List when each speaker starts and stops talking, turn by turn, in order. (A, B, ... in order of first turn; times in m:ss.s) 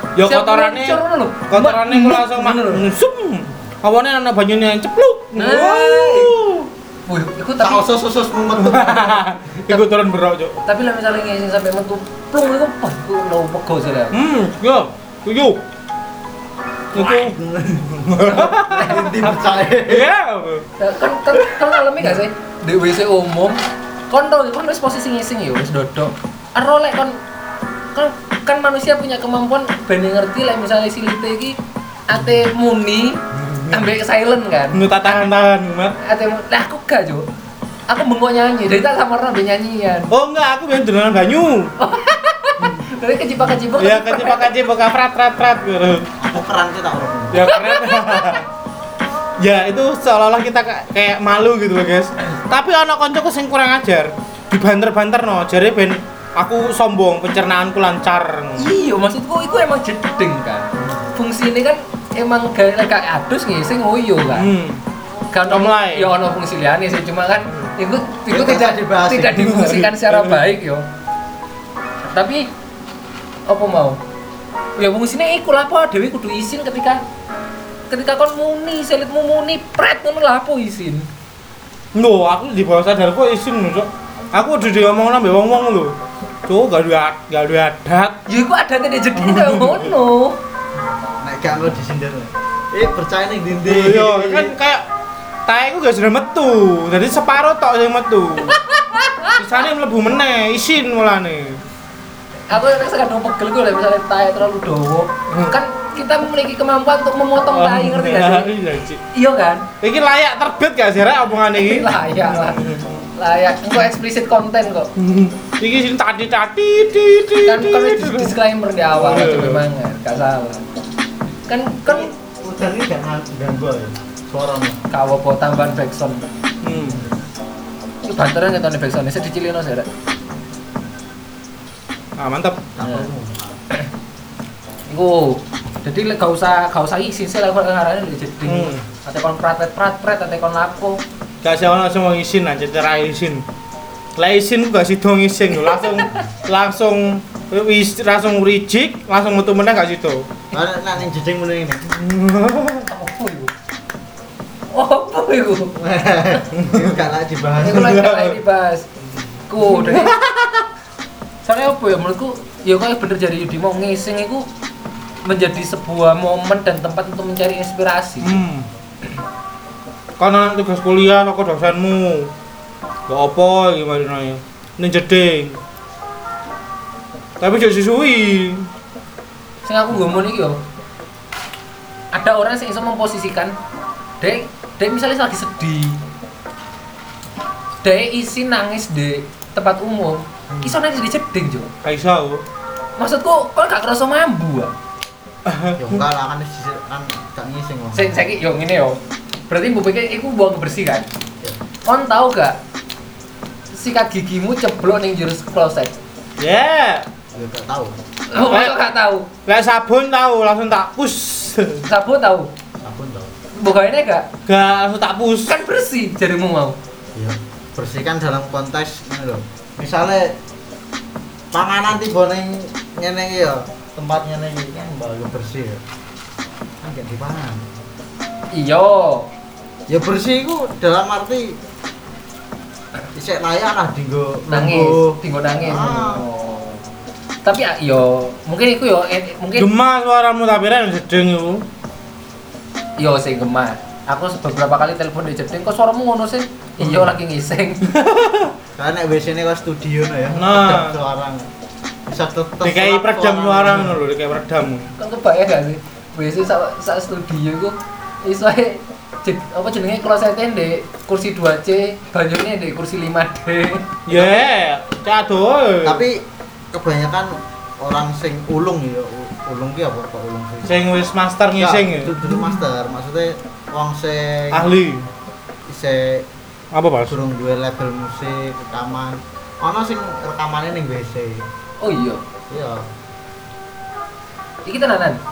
0:00.2-0:06.7 A
0:00.2-0:02.8 B
0:05.4-0:06.4 B
0:07.1-0:07.9 B
0:07.6-0:09.3 C
0:08.6-0:10.6 A
0:10.6-0:14.2 B
0:14.1-0:15.6 A
0:16.9-0:17.4 A
0:16.9-0:20.1 C
0:17.9-0:19.4 A
0:18.7-0:19.0 B
0:19.9-0:20.6 A
0:20.8-0:23.6 B
0:21.3-0:22.2 C
0:24.1-0:27.2 B
0:27.9-0:31.6 B
0:32.1-0:35.2 B
0:33.3-0:34.0 A
0:34.7-0:36.0 A
0:36.0-0:37.3 B
0:37.9-0:40.1 B
0:40.1-0:41.7 A
0:41.8-0:44.5 B
0:43.7-0:46.1 A
0:46.2-0:47.5 C
0:47.3-0:48.4 A
0:47.4-0:48.4 B
0:49.4-0:58.7 A
0:58.6-1:04.5 B
1:00.8-1:01.1 C
1:04.3-1:04.8 A
1:05.3-1:10.9 B
1:05.5-1:06.1 A
1:08.3-1:09.5 C
1:09.3-1:10.4 A
1:12.1-1:12.5 B
1:13.5-1:14.0 B
1:14.8-1:17.0 B
1:17.9-1:21.1 B
1:21.9-1:28.2 A
1:28.3-1:30.4 B
1:29.2-1:29.9 A
1:31.2-1:34.5 C
1:33.7-1:34.8 A
1:35.5-1:38.6 A
1:38.7-1:39.4 B
1:39.4-1:41.6 A
1:42.5-1:48.5 B
1:47.5-1:49.0 A
1:49.1-1:49.7 B
1:49.8-1:53.1 A
1:51.6-1:52.6 B
1:53.2-1:54.9 B
1:55.0-1:58.4 A
1:57.5-2:00.6 B
1:58.9-1:59.6 A
2:01.5-2:02.1 B
2:01.9-2:04.8 C
2:04.9-2:06.2 B
2:06.6-2:07.0 A
2:06.8-2:07.1 C
2:08.0-2:09.9 B
2:12.2-2:12.7 A
2:12.8-2:13.6 C
2:14.9-2:21.0 B
2:18.4-2:18.8 A
2:21.4-2:23.4 A
2:24.2-2:30.3 A
2:25.6-2:26.2 B
2:30.5-2:31.8 C
2:31.9-2:32.9 A
2:32.9-2:33.5 B
2:34.7-2:35.8 B
2:35.8-2:38.0 C
2:36.6-2:36.9 A
2:37.6-2:38.9 B
2:37.6-2:38.4 A
2:39.5-2:40.1 B
2:39.6-2:40.6 A
2:41.4-2:44.5 B
2:45.2-2:48.4 B
2:48.2-2:48.7 A
2:50.2-2:52.3 A
2:53.1-2:55.6 A
2:57.4-2:58.7 A
2:59.6-3:00.6 B
3:02.1-3:03.5 B
3:04.2-3:06.0 B
3:07.8-3:11.7 B
3:11.8-3:12.4 A
3:13.0-3:14.7 B
3:15.5-3:16.0 A
3:15.8-3:18.3 C
3:17.9-3:21.1 B
3:21.9-3:22.6 B
3:23.7-3:25.9 B
3:26.4-3:27.1 A
3:27.3-3:28.0 C
3:28.3-3:29.3 B
3:28.5-3:28.8 A
3:29.5-3:31.9 A
3:31.9-3:32.5 B
3:32.8-3:33.3 C
3:33.6-3:34.3 B
3:34.5-3:35.5 A
3:35.5-3:36.8 B
3:37.2-3:40.4 C
3:41.5-3:45.8 C
3:46.8-3:47.8 C
3:48.5-3:49.3 B
3:49.9-3:51.6 C
3:53.1-3:56.2 C
3:54.5-3:56.9 B
3:57.4-3:59.7 B
3:59.6-4:01.6 A
4:03.0-4:07.9 B
4:07.9-4:08.5 A
4:08.8-4:11.5 C
4:10.3-4:11.0 A
4:12.1-4:14.0 C
4:12.6-4:14.9 A
4:15.0-4:23.9 B
4:24.1-4:26.1 A
4:24.1-4:24.4 C
4:25.8-4:30.9 C
4:30.6-4:32.1 A
4:31.6-4:34.7 C
4:34.5-4:35.1 A
4:35.7-4:36.3 C
4:36.7-4:37.2 A
4:37.1-4:41.5 C
4:41.8-4:42.2 B
4:42.5-4:42.9 C
4:44.6-4:45.2 B